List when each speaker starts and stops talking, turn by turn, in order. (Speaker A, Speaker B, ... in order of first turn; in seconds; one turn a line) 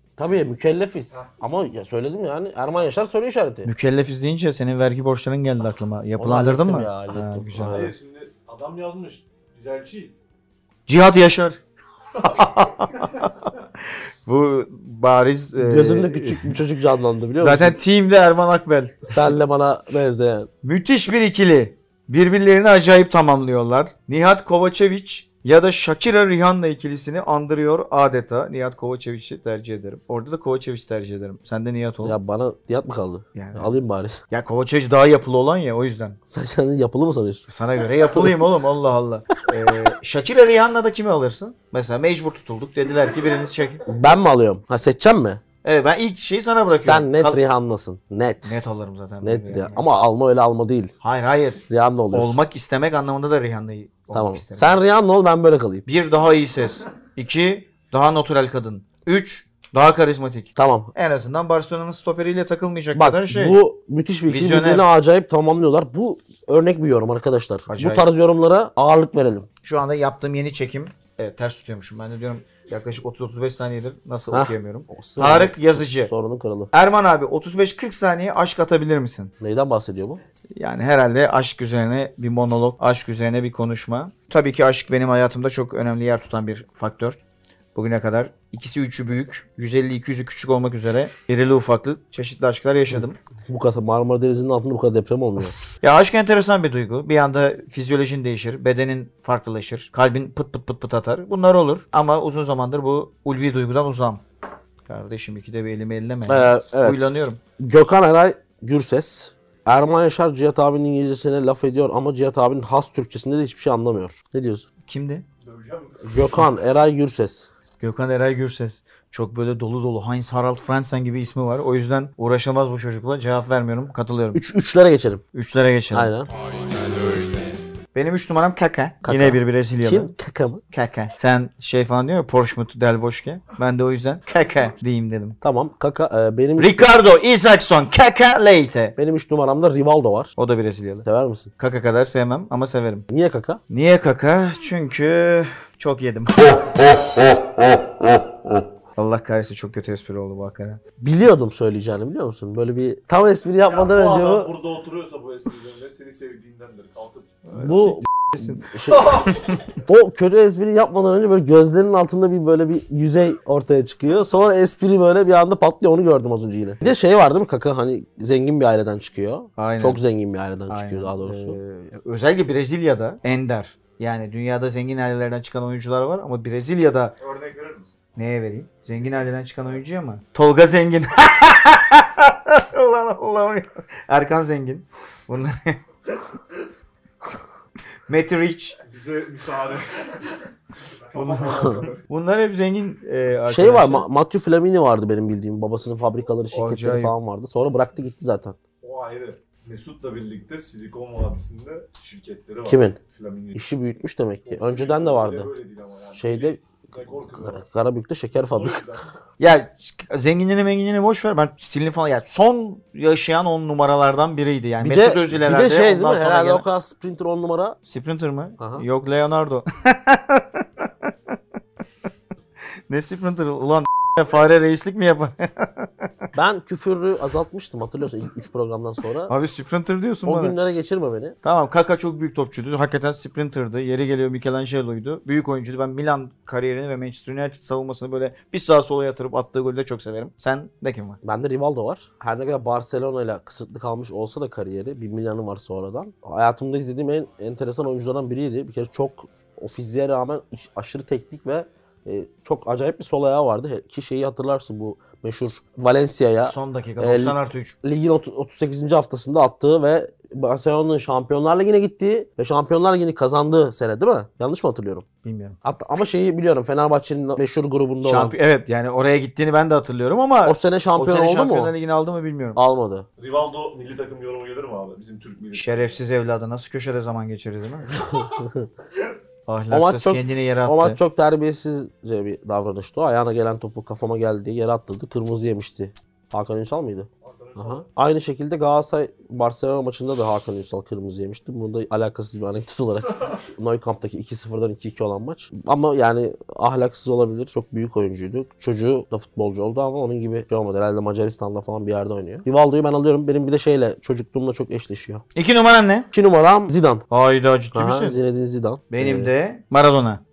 Speaker A: 0.2-3.7
Speaker B: 3.6-7.9
Speaker A: 6.2-7.9
Speaker C: 7.7-10.2
Speaker B: 10.9-11.6
Speaker B: 12.2-13.5
Speaker B: 14.2-16.6
Speaker A: 15.6-17.8
Speaker B: 17.4-19.3
Speaker A: 19.0-20.5
Speaker B: 20.6-32.2
Speaker A: 32.0-34.2
Speaker B: 33.3-33.8
Speaker B: 34.3-36.2
Speaker A: 36.3-38.5
Speaker B: 37.5-43.8
Speaker A: 43.9-45.4
Speaker B: 45.6-47.4
Speaker A: 46.7-48.6
Speaker B: 48.4-49.8
Speaker A: 49.2-50.9
Speaker B: 51.0-54.8
Speaker A: 51.7-52.4
Speaker A: 54.1-55.8
Speaker B: 55.9-63.6
Speaker A: 60.5-60.9
Speaker A: 62.9-69.5
Speaker B: 64.3-64.9
Speaker B: 67.7-68.1
Speaker B: 69.6-76.1
Speaker A: 74.3-76.7
Speaker B: 76.7-79.3
Speaker A: 79.4-80.2
Speaker B: 80.6-87.2
Speaker B: 87.8-93.2
Speaker A: 92.9-95.5
Speaker B: 95.8-104.2
Speaker B: 104.9-107.4
Speaker A: 106.3-114.7
Speaker B: 114.9-115.2
Speaker C: 115.4-116.5
Speaker A: 116.0-117.5
Speaker B: 117.8-124.4
Speaker A: 124.3-125.2
Speaker B: 125.3-126.1
Speaker A: 125.9-126.3
Speaker B: 127.9-130.1
Speaker A: 129.0-130.6
Speaker B: 130.7-135.4
Speaker A: 135.4-136.9
Speaker B: 136.6-138.9
Speaker A: 138.9-140.3
Speaker B: 140.4-141.1
Speaker A: 141.0-141.5
Speaker B: 141.6-143.1
Speaker A: 143.1-143.6
Speaker B: 143.7-146.9
Speaker B: 148.9-150.8
Speaker A: 151.0-154.5
Speaker C: 153.6-157.5
Speaker B: 157.5-158.7
Speaker A: 157.6-159.2
Speaker C: 158.9-159.3
Speaker A: 159.9-171.6
Speaker B: 169.6-170.0
Speaker B: 170.7-177.2
Speaker C: 177.2-178.0
Speaker B: 178.2-185.8
Speaker B: 188.1-188.8
Speaker C: 188.8-190.3
Speaker C: 191.1-192.0
Speaker B: 191.2-194.1
Speaker A: 193.5-198.6
Speaker B: 196.5-197.1
Speaker C: 198.8-203.7
Speaker A: 202.7-203.0
Speaker A: 203.5-205.5
Speaker C: 204.4-207.6
Speaker A: 206.1-206.6
Speaker A: 207.3-209.0
Speaker C: 208.4-209.1
Speaker B: 209.4-216.7
Speaker A: 214.8-217.8
Speaker B: 217.9-221.1
Speaker A: 218.6-218.9
Speaker B: 222.9-226.1
Speaker A: 226.3-229.3
Speaker B: 229.3-230.6
Speaker A: 230.2-231.4
Speaker B: 231.4-241.2
Speaker A: 241.2-265.1
Speaker B: 256.4-257.8
Speaker B: 265.2-265.6
Speaker A: 265.6-268.4
Speaker B: 268.0-272.6
Speaker A: 270.4-271.7
Speaker A: 272.6-273.1
Speaker C: 273.2-276.0
Speaker B: 275.5-278.0
Speaker A: 278.1-278.7
Speaker B: 279.5-281.0
Speaker A: 279.7-305.2
Speaker C: 287.2-287.9
Speaker B: 305.4-306.1
Speaker A: 306.1-307.1
Speaker B: 307.1-308.2
Speaker A: 307.7-309.3
Speaker B: 308.9-310.2